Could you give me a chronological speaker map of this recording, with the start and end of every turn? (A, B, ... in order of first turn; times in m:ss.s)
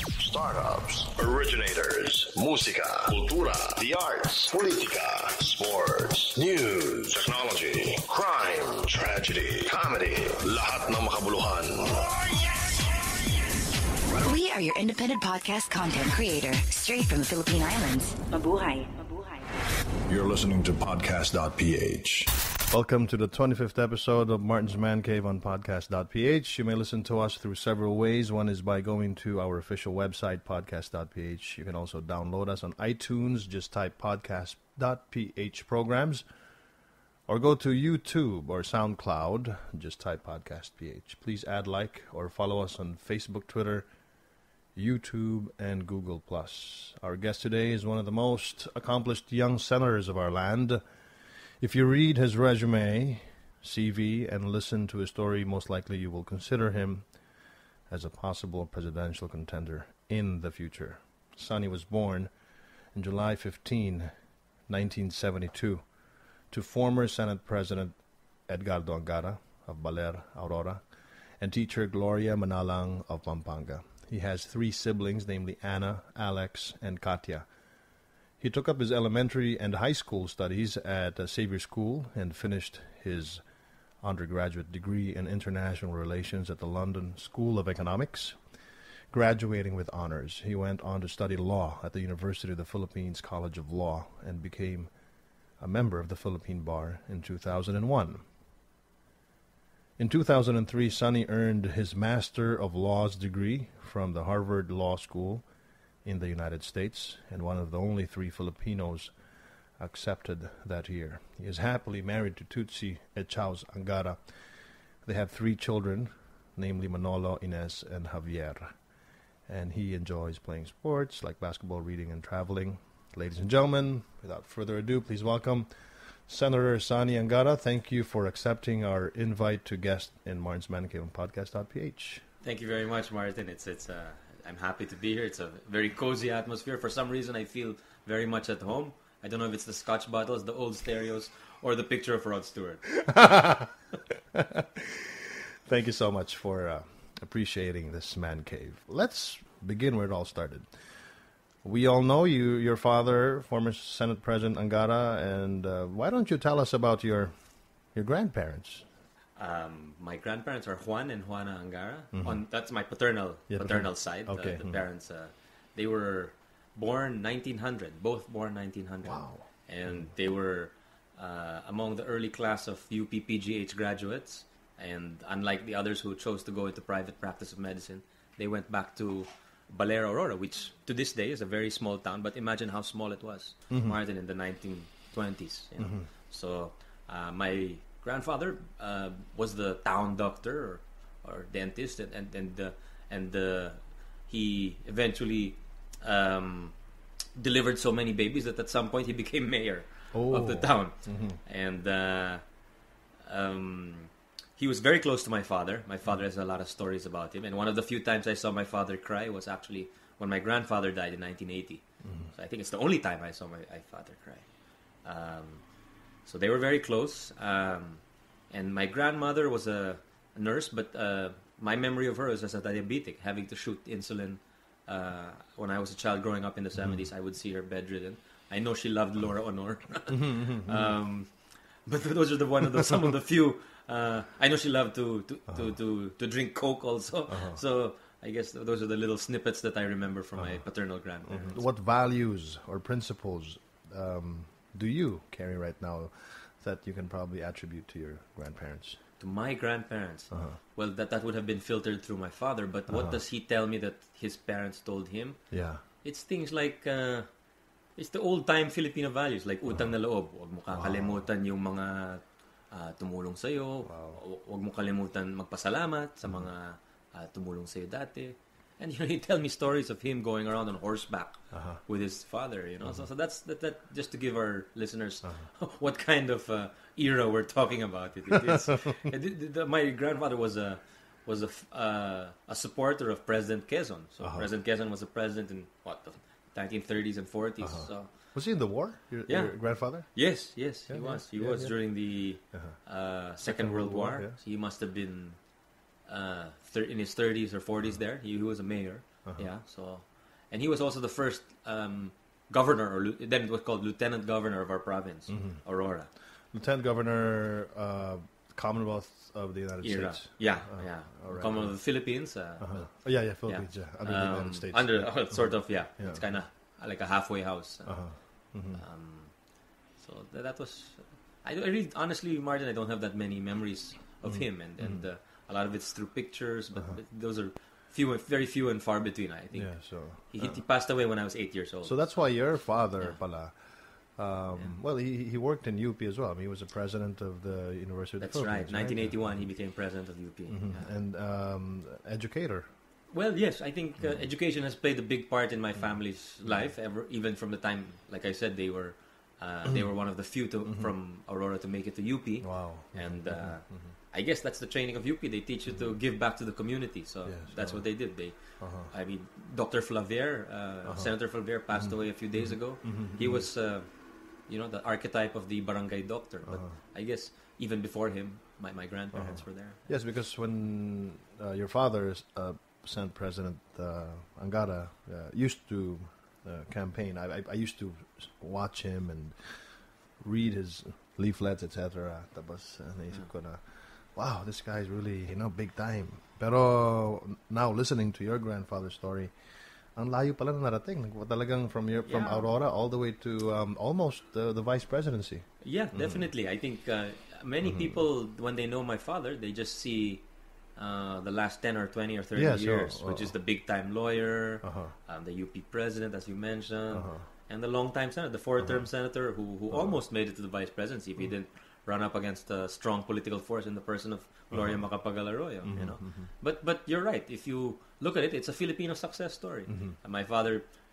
0:00.2-0:12.8 A
0:14.2-0:19.3 B
0:20.1-0:22.3 A
0:22.7-0:36.2 C
0:37.3-0:43.9 C
0:44.7-0:50.8 C
0:51.6-0:57.0 C
0:57.9-1:02.3 C
1:02.9-1:04.1 C
1:04.7-1:05.8 C
1:06.5-1:08.0 C
1:08.5-1:10.8 C
1:11.4-1:17.5 C
1:18.4-1:23.4 C
1:24.0-1:28.4 C
1:29.1-1:34.9 C
1:35.6-1:38.2 C
1:40.0-1:45.4 C
1:46.0-1:49.1 C
1:49.8-1:54.2 C
1:55.0-1:58.7 C
1:59.5-2:05.7 C
2:06.3-2:12.2 C
2:12.4-2:23.0 D
2:23.0-2:23.7 C
2:24.3-2:30.7 C
2:31.6-2:37.3 C
2:37.9-2:38.8 C
2:39.4-3:16.7 D
2:42.1-2:42.4 C
2:43.5-2:44.8 C
2:49.0-2:49.4 C
3:17.4-3:22.4 D
3:20.1-3:21.4 C
3:23.2-3:34.4 D
3:35.0-3:35.6 D
3:36.2-3:51.3 D
3:50.1-3:50.9 C
3:51.8-4:01.6 D
3:57.3-3:57.6 C
4:01.3-4:09.0 C
4:09.2-4:15.4 D
4:10.3-4:10.6 C
4:12.9-4:13.1 C
4:15.5-4:15.8 C
4:16.0-4:17.3 D
4:18.0-4:48.1 D
4:20.7-4:21.2 C
4:23.8-4:24.2 C
4:31.5-4:31.8 C
4:38.3-4:38.8 C
4:44.2-4:44.5 C
4:47.6-4:50.1 C
4:49.3-4:55.4 D
4:50.9-4:51.7 C
4:53.4-4:54.3 C
4:56.0-5:06.1 D
5:05.3-5:05.6 C
5:06.5-5:11.8 C
5:09.8-5:12.9 D
5:12.6-5:16.2 C
5:13.5-5:18.0 D
5:17.8-5:18.8 C
5:18.7-5:19.3 D
5:20.0-5:32.2 D
5:29.5-5:30.5 C
5:31.8-5:33.5 C
5:34.2-5:39.3 C
5:38.2-5:40.9 D
5:40.5-5:42.6 C
5:43.1-6:03.9 D
5:52.4-5:53.9 C
5:57.2-5:57.8 C
5:58.6-5:58.9 C
6:01.8-6:03.4 C
6:04.5-6:09.8 D
6:06.5-6:06.7 C
6:09.1-6:29.3 C
6:30.0-6:36.3 C
6:32.0-6:32.4 D
6:35.6-6:40.2 D
6:37.7-6:38.0 C
6:40.8-7:00.6 D
6:42.4-6:43.3 C
6:44.6-6:44.9 C
6:46.9-6:47.2 C
6:54.5-6:54.8 C
6:55.6-6:56.3 C